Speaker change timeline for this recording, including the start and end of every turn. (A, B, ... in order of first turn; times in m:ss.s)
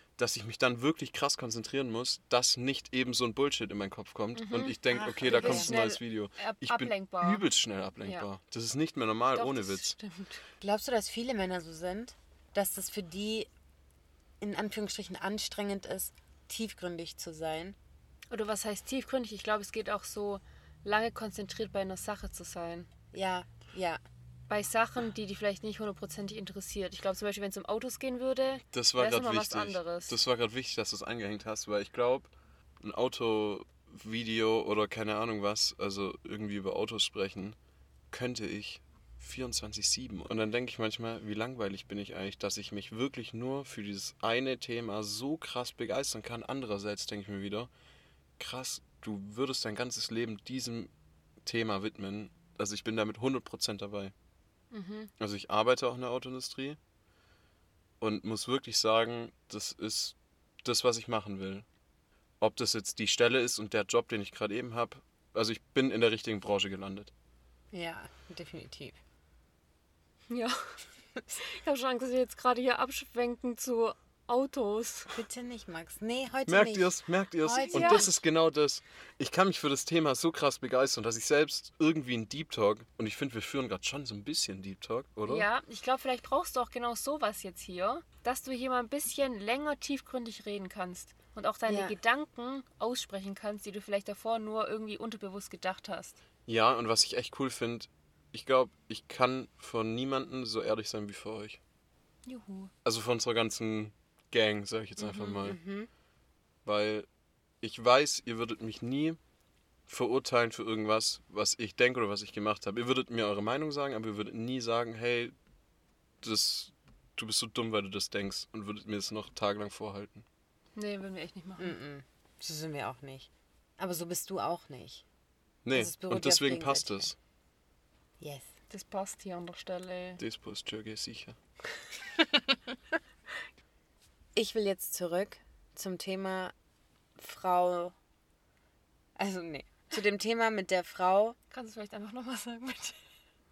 0:00.2-0:09.9 A
0:04.3-0:07.4 B
0:04.9-0:05.7 C
0:09.3-0:10.4 B
0:10.6-0:13.5 C
0:14.4-0:17.8 C
0:18.3-0:22.9 B
0:23.1-0:24.0 C
0:24.5-0:30.2 B
0:28.7-0:37.6 A
0:38.1-0:47.7 A
0:48.4-0:50.9 A
0:51.4-0:54.1 A
0:54.7-0:55.1 B
0:55.2-0:56.8 A
0:58.0-1:01.6 A
1:02.4-1:07.1 A
1:07.7-1:09.0 C
1:10.3-1:10.6 B
1:11.3-1:15.1 B
1:15.1-1:18.2 C
1:16.5-1:25.5 A
1:17.7-1:18.1 B
1:25.3-1:36.2 B
1:31.7-1:32.0 C
1:36.4-1:41.6 A
1:42.2-1:42.7 B
1:42.8-1:45.6 A
1:45.0-1:45.9 C
1:46.6-1:47.1 A
1:47.6-1:49.2 A
1:49.9-1:55.3 A
1:56.2-2:00.2 A
2:00.7-2:01.8 B
2:01.6-2:05.0 C
2:05.6-2:07.2 A
2:05.7-2:07.1 C
2:08.2-2:08.4 C
2:08.7-2:10.2 B
2:10.2-2:11.4 A
2:12.2-2:12.6 C
2:14.4-2:16.5 C
2:17.2-2:18.0 C
2:19.2-2:21.4 C
2:21.5-2:23.0 B